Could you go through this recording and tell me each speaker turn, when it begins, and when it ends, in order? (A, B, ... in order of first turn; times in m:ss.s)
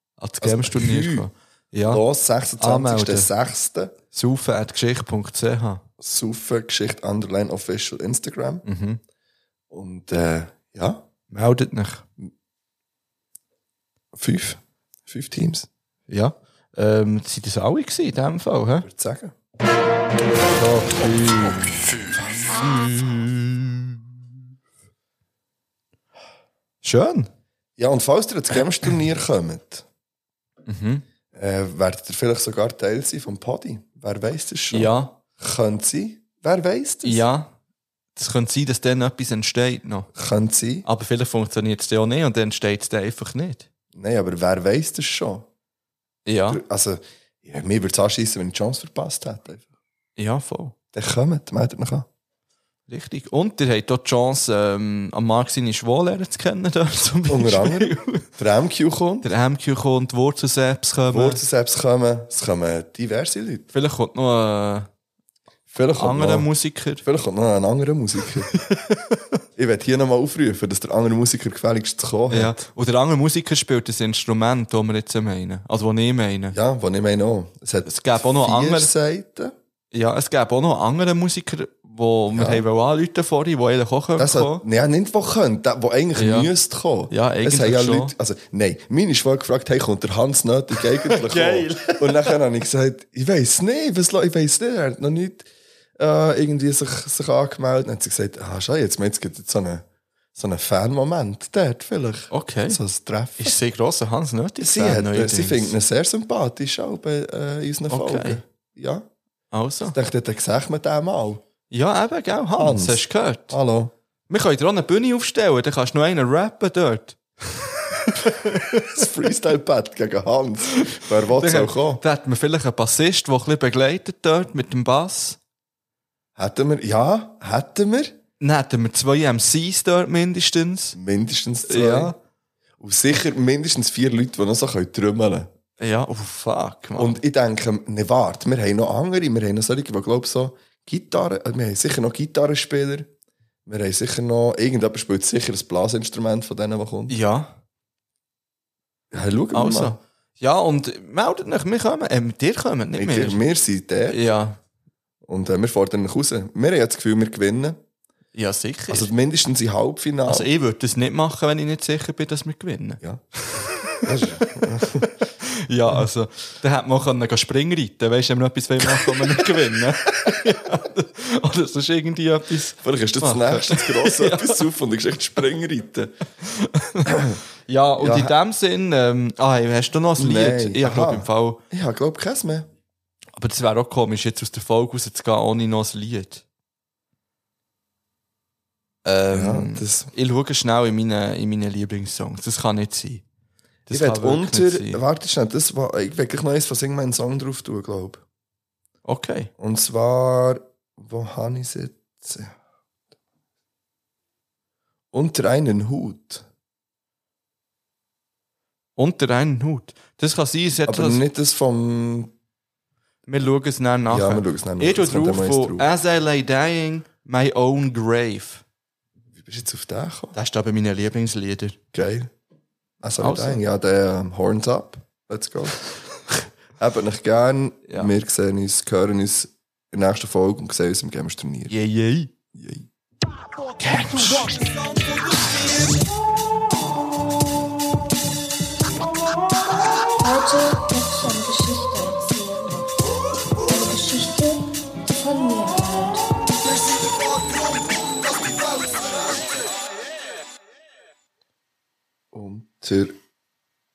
0:00.2-0:02.0 A
0:00.4-0:01.3 B
0:01.8-0:04.0 B
0:02.6-0:03.3 A
0:04.1-0:05.8 A
0:06.0-0:08.6 B
0:08.6-0:09.0 A
0:09.7-0:11.0 B
0:11.3-0:12.0 A
0:14.1-0:15.7 B
0:16.1-0:18.9 A
0:18.8-0:19.4 B
0:20.5-0:24.0 A
0:26.8-0:27.3 A
0:27.8-0:29.8 B
0:30.7-0:31.0 A
0:31.3-0:37.2 B
0:34.7-0:35.2 A
0:37.0-0:37.5 A
0:38.2-0:40.1 A
0:40.2-0:40.9 B
0:40.8-0:43.7 A
0:43.9-0:45.5 B
0:46.3-0:46.6 A
0:46.5-0:49.7 B
0:50.2-0:50.7 A
0:50.9-0:52.1 B
0:52.9-0:58.3 A
0:57.3-0:59.3 B
0:59.2-1:01.4 A
1:01.1-1:03.7 B
1:03.7-1:04.9 A
1:05.7-1:06.5 B
1:05.9-1:07.0 A
1:07.0-1:08.5 B
1:08.5-1:09.2 A
1:09.6-1:12.6 B
1:12.3-1:16.6 A
1:16.5-1:19.5 B
1:17.8-1:18.9 A
1:19.9-1:24.6 A
1:22.3-1:22.6 B
1:24.2-1:39.8 B
1:26.2-1:26.5 A
1:27.1-1:28.1 A
1:30.9-1:32.4 A
1:40.4-1:43.6 B
1:42.3-1:42.8 A
1:43.4-1:45.7 A
1:44.6-1:49.1 B
1:47.9-1:48.4 A
1:49.5-1:50.0 A
1:49.9-1:51.4 B
1:51.7-1:53.6 A
1:52.6-1:53.9 B
1:54.3-1:59.0 A
1:58.9-2:02.0 B
2:00.8-2:05.4 A
2:06.4-2:08.2 B
2:08.4-2:11.0 A
2:11.0-2:12.1 B
2:11.7-2:12.2 A
2:12.8-2:15.5 B
2:15.8-2:17.2 A
2:17.0-2:23.1 B
2:23.7-2:27.2 B
2:27.1-2:27.6 A
2:29.1-2:30.0 B
2:29.5-2:33.4 A
2:33.0-2:34.2 B
2:34.1-2:34.6 A
2:35.3-2:37.8 B
2:38.4-2:39.1 A
2:38.9-2:40.5 B
2:40.3-2:54.6 A
2:43.8-2:45.1 B
2:48.9-2:49.2 B
2:52.8-2:56.1 B
2:56.4-2:57.1 A
2:57.1-2:57.4 B
2:57.7-3:01.6 A
2:58.0-2:58.4 B
3:00.2-3:02.7 B
3:03.4-3:06.4 A
3:09.0-3:13.2 A
3:09.3-3:10.1 B
3:13.9-3:15.0 A
3:13.9-3:18.2 B
3:19.0-3:19.5 A
3:19.6-3:22.6 B
3:25.1-3:26.4 B
3:29.0-3:31.2 A
3:30.9-3:32.3 B
3:33.3-3:38.6 A
3:34.1-3:35.9 B
3:39.4-3:40.4 B
3:40.3-3:41.8 A
3:41.9-3:42.3 B
3:43.0-3:51.7 B
3:43.2-3:43.6 A
3:51.7-3:52.3 A
3:52.5-3:52.9 B
3:53.8-3:54.8 A
4:00.2-4:03.1 C
4:03.6-4:06.2 C
4:12.3-4:13.2 B